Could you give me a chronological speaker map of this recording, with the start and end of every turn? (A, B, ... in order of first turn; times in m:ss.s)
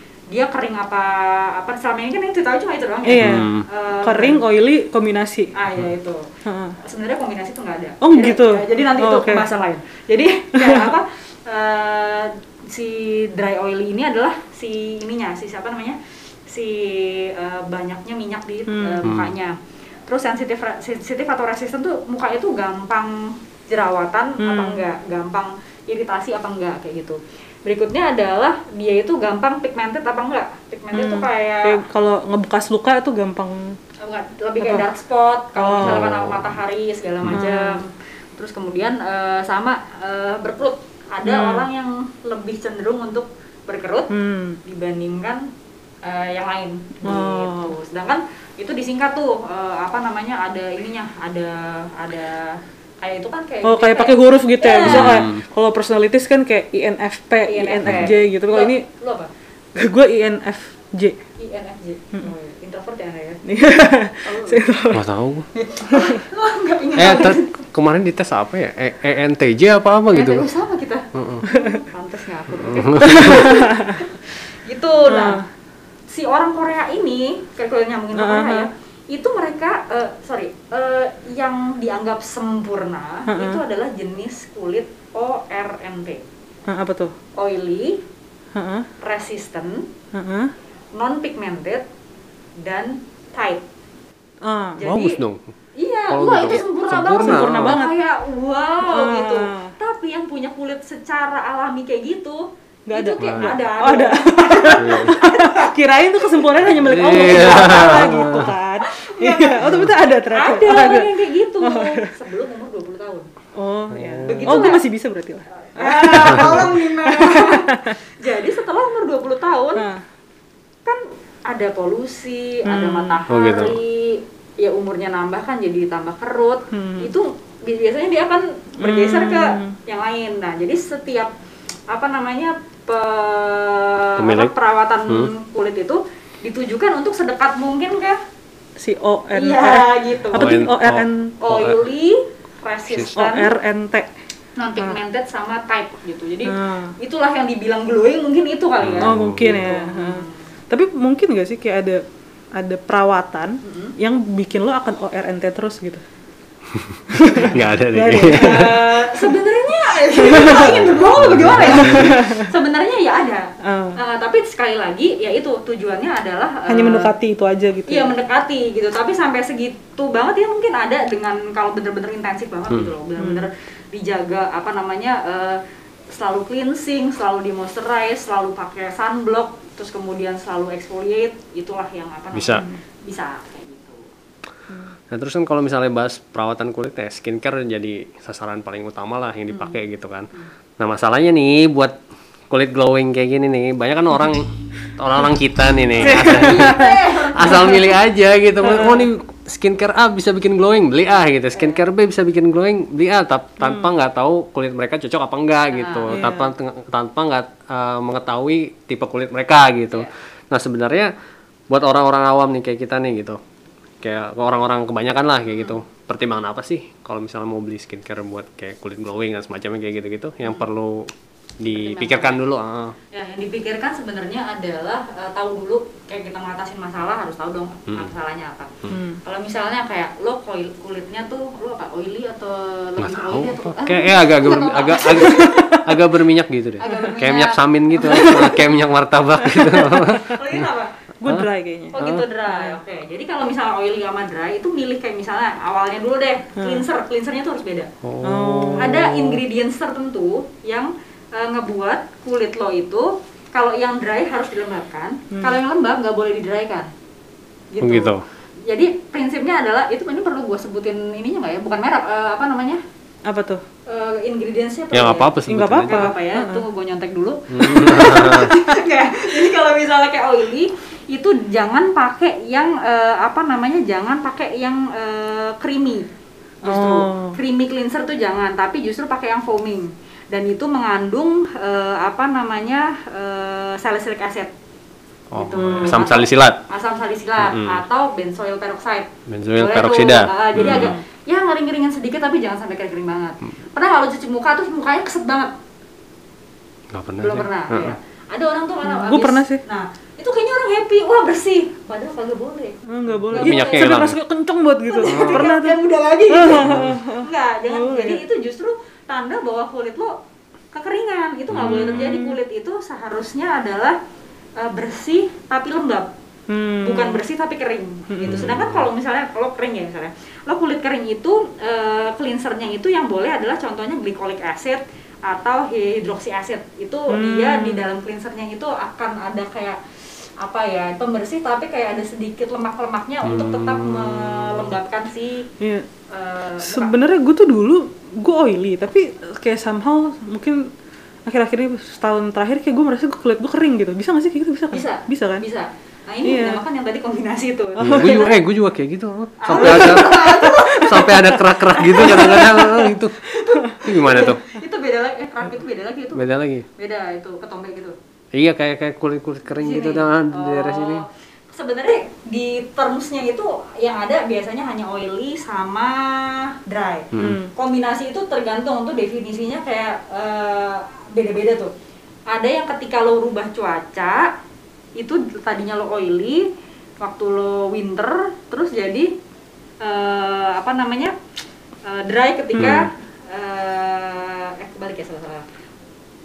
0:00.3-0:04.4 A
0:03.0-0:03.5 B
0:03.2-0:03.6 C
0:04.0-0:05.5 B
0:05.5-0:06.2 A
0:06.4-0:06.8 B
0:06.8-0:31.8 A
0:08.0-0:09.4 B
0:10.5-0:10.9 B
0:18.7-0:19.0 B
0:19.0-0:19.3 C
0:24.4-0:24.8 B
0:30.9-0:33.8 B
0:34.0-0:44.1 A
0:35.6-0:36.0 B
0:35.8-0:36.5 C
0:37.3-0:37.8 B
0:41.2-0:41.6 B
0:44.1-0:44.6 B
0:44.6-0:45.4 A
0:46.0-0:55.2 A
0:47.0-0:47.7 B
0:53.6-0:58.8 B
0:54.8-0:55.4 C
0:57.4-0:59.3 A
0:59.8-1:01.2 B
1:01.4-1:03.4 A
1:03.4-1:05.0 B
1:04.2-1:04.6 A
1:04.9-1:05.5 C
1:05.5-1:07.5 A
1:05.9-1:06.2 B
1:07.0-1:10.5 C
1:10.1-1:15.4 A
1:11.1-1:11.5 C
1:11.5-1:11.8 B
1:12.6-1:13.5 C
1:13.0-1:14.0 B
1:15.1-1:15.4 B
1:16.1-1:26.2 A
1:18.2-1:18.7 B
1:23.3-1:23.6 B
1:26.7-1:27.1 B
1:27.4-1:28.0 A
1:28.5-1:28.9 B
1:29.0-1:29.9 A
1:30.1-1:30.5 B
1:30.9-1:31.8 A
1:32.6-1:33.6 A
1:34.4-1:34.9 B
1:34.8-1:35.2 A
1:34.8-1:35.4 C
1:35.8-1:45.7 A
1:36.1-1:37.8 C
1:36.9-1:38.0 B
1:38.8-1:39.7 B
1:42.9-1:51.1 B
1:43.2-1:43.6 C
1:44.8-1:45.2 C
1:46.7-1:48.5 C
1:46.9-1:49.8 A
1:50.3-1:53.3 A
1:51.6-1:52.1 B
1:53.6-1:57.9 B
1:53.9-1:54.6 C
1:54.3-1:54.8 A
1:55.6-1:59.8 A
1:59.8-2:00.0 B
2:00.8-2:11.3 A
2:02.6-2:03.2 B
2:03.3-2:03.8 C
2:06.7-2:07.1 B
2:08.8-2:09.7 B
2:11.9-2:18.2 A
2:14.2-2:14.5 C
2:18.8-2:21.3 B
2:19.3-2:20.6 A
2:20.3-2:21.8 C
2:21.4-2:23.5 A
2:23.1-2:24.1 B
2:24.6-2:30.4 A
2:26.5-2:26.9 B
2:28.8-2:29.7 C
2:29.0-2:32.0 B
2:32.5-2:36.0 B
2:33.6-2:33.9 A
2:36.7-2:38.8 C
2:37.1-2:39.2 B
2:38.3-2:47.1 A
2:40.1-2:40.9 B
2:40.6-2:42.1 C
2:41.7-2:42.5 B
2:43.6-2:44.0 B
2:46.7-2:48.1 B
2:47.9-2:55.6 A
2:53.2-2:53.5 B
2:56.1-3:04.0 A
3:02.3-3:02.6 C
3:04.7-3:04.9 B
3:05.1-3:11.9 C
3:09.5-3:09.8 A
3:12.5-3:31.1 C
3:16.0-3:17.0 B
3:16.0-3:18.0 A
3:18.6-3:19.1 B
3:25.7-3:26.2 A
3:26.1-3:26.5 B
3:31.7-3:33.4 C
3:34.0-3:43.0 C
3:41.7-3:42.4 A
3:43.1-3:55.8 A
3:48.9-3:49.2 B
3:53.0-4:00.6 C
3:55.3-3:55.7 B
3:56.8-3:58.5 A
3:58.0-3:58.6 B
3:59.5-4:00.1 B
4:00.2-4:00.9 A
4:01.2-4:02.0 B
4:01.9-4:07.9 A
4:02.0-4:02.2 C
4:06.6-4:06.8 B
4:08.0-4:09.4 C
4:08.2-4:09.1 B
4:08.8-4:16.9 A
4:17.7-4:18.1 A
4:17.8-4:18.2 C
4:18.7-4:22.8 A
4:23.2-4:23.6 B
4:23.9-4:25.3 A
4:24.9-4:26.1 C
4:25.5-4:26.6 B
4:25.9-4:36.1 A
4:27.5-4:28.5 C
4:36.6-4:44.5 A
4:36.6-4:37.4 B
4:45.3-4:46.6 C
4:45.3-4:55.5 A
4:45.6-4:46.0 B
4:47.4-4:47.8 C
4:49.3-4:51.0 C
4:50.6-4:50.9 B
4:56.9-4:57.9 C
4:57.2-5:04.0 A
4:58.8-4:59.6 B
5:02.9-5:08.2 B
5:03.3-5:04.2 C
5:04.9-5:10.2 A
5:05.1-5:05.4 C
5:06.6-5:07.0 C
5:10.7-5:14.0 A
5:11.5-5:11.9 C
5:11.5-5:12.4 B
5:14.6-5:16.1 A
5:16.5-5:17.2 B
5:16.8-5:29.8 A
5:18.1-5:18.5 B
5:18.3-5:18.8 C
5:27.1-5:27.8 B
5:30.4-5:35.5 A
5:33.2-5:34.7 C
5:35.6-5:35.9 B
5:36.1-5:36.9 A
5:36.6-5:40.7 B
5:41.2-5:45.4 B
5:44.7-5:48.4 A
5:46.2-5:46.6 B
5:47.8-5:48.3 B
5:47.8-5:53.3 C
5:49.4-5:56.2 A
5:49.5-5:51.4 B
5:52.0-5:52.5 B
5:53.8-5:54.5 C
5:56.1-5:56.7 C
5:56.8-5:58.0 A
5:58.3-6:01.0 C
5:59.6-6:11.7 A
6:07.1-6:07.4 C
6:07.2-6:07.5 B
6:12.3-6:14.3 A
6:15.0-6:16.5 A
6:17.0-6:19.1 A
6:19.8-6:21.1 A
6:21.8-6:25.4 A
6:22.6-6:22.9 C